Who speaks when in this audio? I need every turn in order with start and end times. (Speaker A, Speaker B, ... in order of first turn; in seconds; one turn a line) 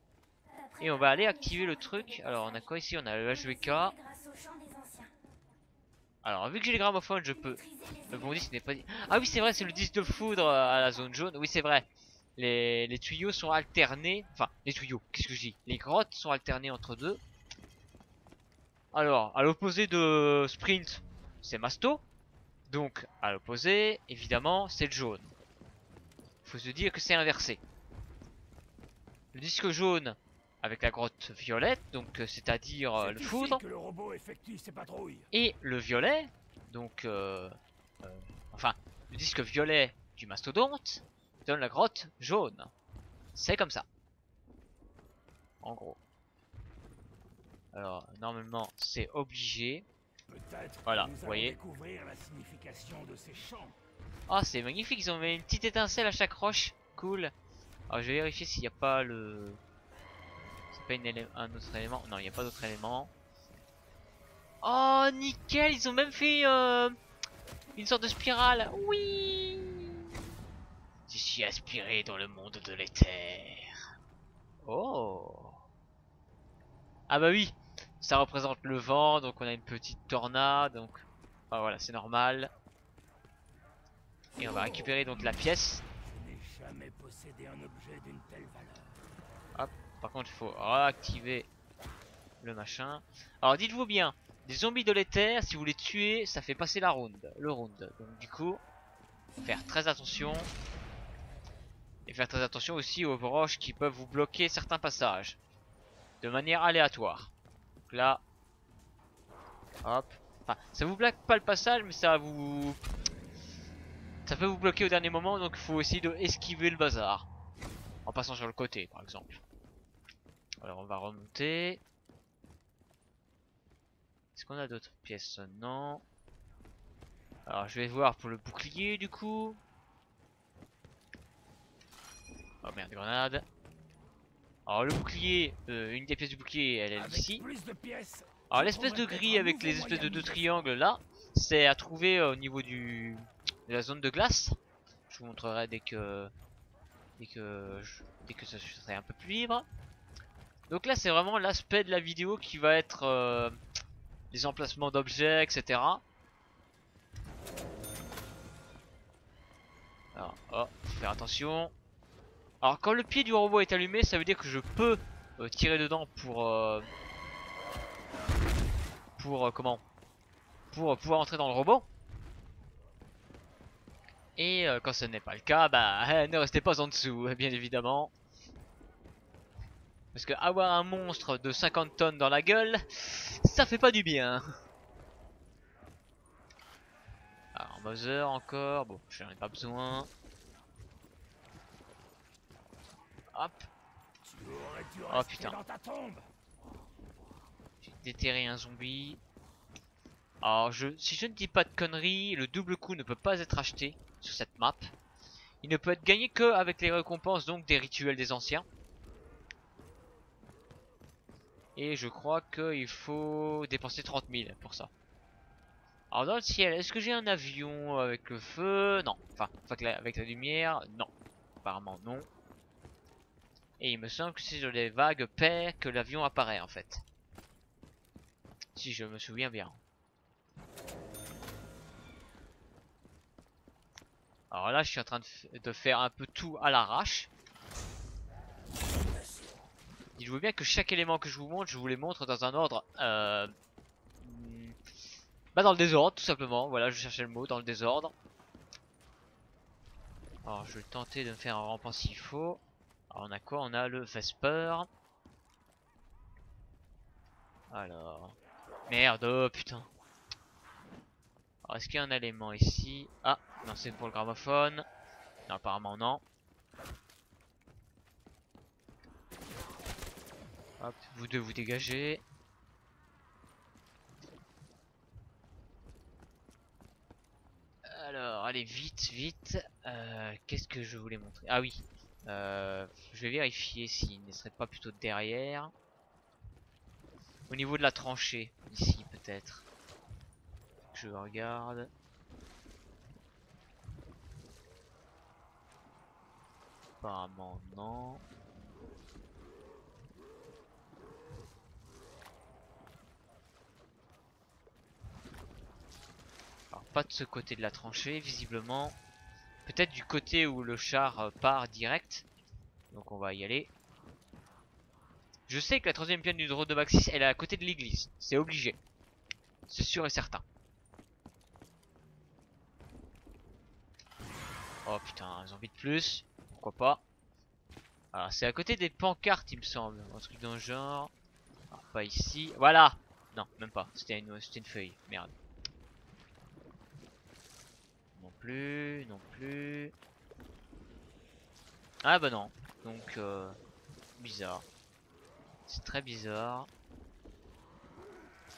Speaker A: 0.5-5.1
Speaker B: 0.8-3.9
Speaker B: 6.2-17.2
Speaker A: 7.5-11.1
Speaker B: 18.9-22.0
Speaker B: 22.7-25.3
Speaker B: 26.4-27.6
Speaker B: 29.3-33.6
Speaker C: 33.0-35.3
Speaker B: 35.3-42.7
Speaker B: 43.4-43.9
Speaker B: 45.6-46.0
Speaker B: 47.7-49.9
Speaker C: 50.3-53.8
Speaker B: 50.9-51.6
Speaker B: 54.3-57.3
Speaker B: 57.9-59.6
Speaker B: 60.7-63.1
Speaker B: 64.6-67.0
Speaker B: 67.8-70.0
Speaker B: 71.1-73.7
Speaker B: 74.6-75.6
Speaker B: 77.1-82.5
Speaker C: 84.4-85.4
Speaker B: 84.4-85.8
Speaker C: 86.0-89.0
Speaker B: 89.5-91.5
Speaker B: 92.4-98.6
Speaker B: 99.4-100.5
Speaker B: 102.1-105.4
Speaker B: 106.2-107.3
Speaker B: 107.9-108.2
Speaker B: 109.8-112.8
Speaker B: 114.2-117.3
Speaker B: 118.1-119.4
Speaker B: 120.6-121.8
Speaker B: 124.3-126.0
Speaker B: 127.5-129.6
Speaker B: 132.6-133.4
Speaker B: 134.7-137.4
Speaker C: 137.0-140.7
Speaker B: 138.5-144.6
Speaker B: 145.1-146.3
Speaker B: 147.2-149.7
Speaker B: 150.7-153.6
Speaker B: 154.3-156.0
Speaker B: 160.2-161.7
Speaker B: 162.6-166.9
Speaker B: 169.2-169.8
Speaker B: 170.7-171.9
Speaker B: 174.4-178.1
Speaker B: 180.1-184.5
Speaker B: 187.5-190.1
Speaker B: 193.3-193.7
Speaker C: 194.2-196.3
Speaker B: 195.1-195.6
Speaker B: 197.8-199.2
Speaker B: 200.4-204.9
Speaker B: 205.6-208.7
Speaker B: 211.8-214.9
Speaker B: 216.1-221.1
Speaker B: 221.6-222.3
Speaker B: 223.8-227.0
Speaker B: 228.8-229.8
Speaker B: 234.5-237.3
Speaker B: 240.2-243.5
Speaker B: 244.2-244.8
Speaker B: 245.6-248.1
Speaker B: 250.4-254.9
Speaker B: 257.7-258.4
Speaker B: 258.9-259.9
Speaker B: 261.6-264.9
Speaker B: 265.5-266.2
Speaker B: 270.8-272.2
Speaker B: 277.9-285.7
Speaker B: 287.5-289.6
Speaker B: 290.9-291.9
Speaker B: 297.0-298.2
Speaker B: 306.7-309.0
Speaker B: 309.6-312.2
Speaker B: 312.9-313.7
Speaker B: 315.5-318.8
Speaker B: 319.7-320.4
Speaker B: 324.9-327.0
Speaker B: 328.1-331.1
Speaker B: 331.7-335.3
Speaker B: 338.1-339.9
Speaker B: 342.0-343.6
Speaker B: 344.2-344.6
Speaker B: 345.7-346.7